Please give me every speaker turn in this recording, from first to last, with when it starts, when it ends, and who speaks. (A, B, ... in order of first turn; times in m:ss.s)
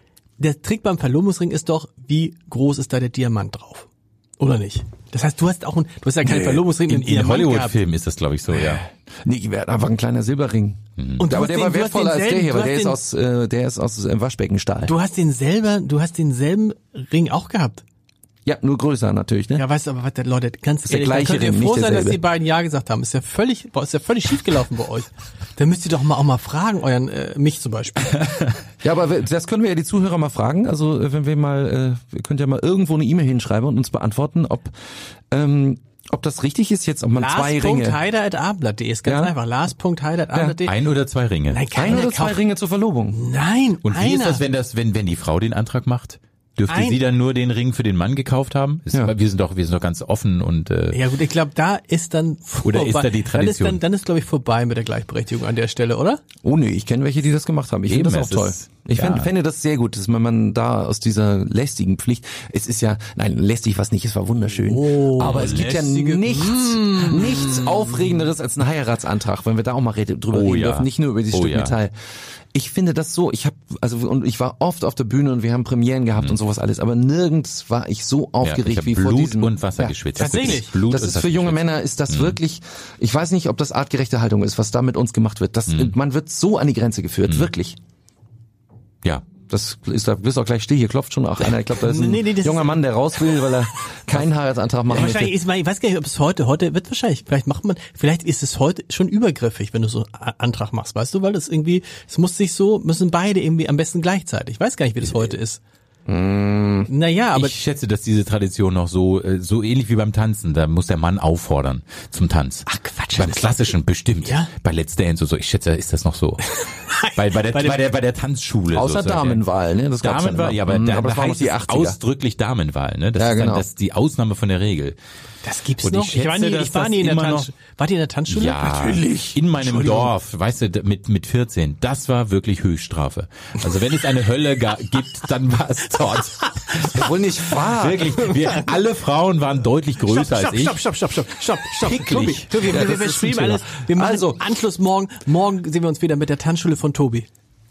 0:00.4-0:07.8 A
0:06.9-0:08.9 B
0:09.2-0:14.9 C
0:11.0-0:11.3 B
0:11.2-0:13.0 A
0:14.9-0:17.8 A
0:18.4-0:19.6 C
0:19.6-0:28.3 A
0:20.9-0:22.2 C
0:28.8-0:34.8 C
0:35.3-0:38.0 C
0:37.2-0:40.8 A
0:39.0-0:39.3 C
0:40.3-0:40.6 C
0:40.6-0:41.7 B
0:41.5-0:42.4 A
0:41.7-0:43.2 C
0:43.1-0:44.4 A
0:43.8-0:51.0 B
0:46.7-0:47.0 A
0:50.9-0:56.2 A
0:52.6-0:53.8 B
0:56.4-1:11.9 C
0:57.9-0:59.3 B
1:04.6-1:08.0 A
1:05.2-1:05.8 B
1:10.3-1:11.8 B
1:12.5-1:27.8 C
1:18.4-1:22.4 B
1:20.2-1:20.7 A
1:25.7-1:25.9 B
1:29.5-1:35.4 C
1:31.7-1:33.5 A
1:34.9-1:45.6 A
1:46.1-1:46.9 C
1:46.9-1:47.5 A
1:47.3-1:59.4 B
1:52.7-1:54.5 A
1:56.6-1:57.8 A
1:58.7-2:02.0 C
2:00.0-2:05.0 B
2:03.2-2:03.7 C
2:05.4-2:08.7 A
2:05.8-2:07.5 B
2:08.3-2:20.8 B
2:08.6-2:10.1 C
2:16.8-2:18.5 C
2:20.0-2:27.3 A
2:21.8-2:22.5 B
2:22.6-2:24.4 C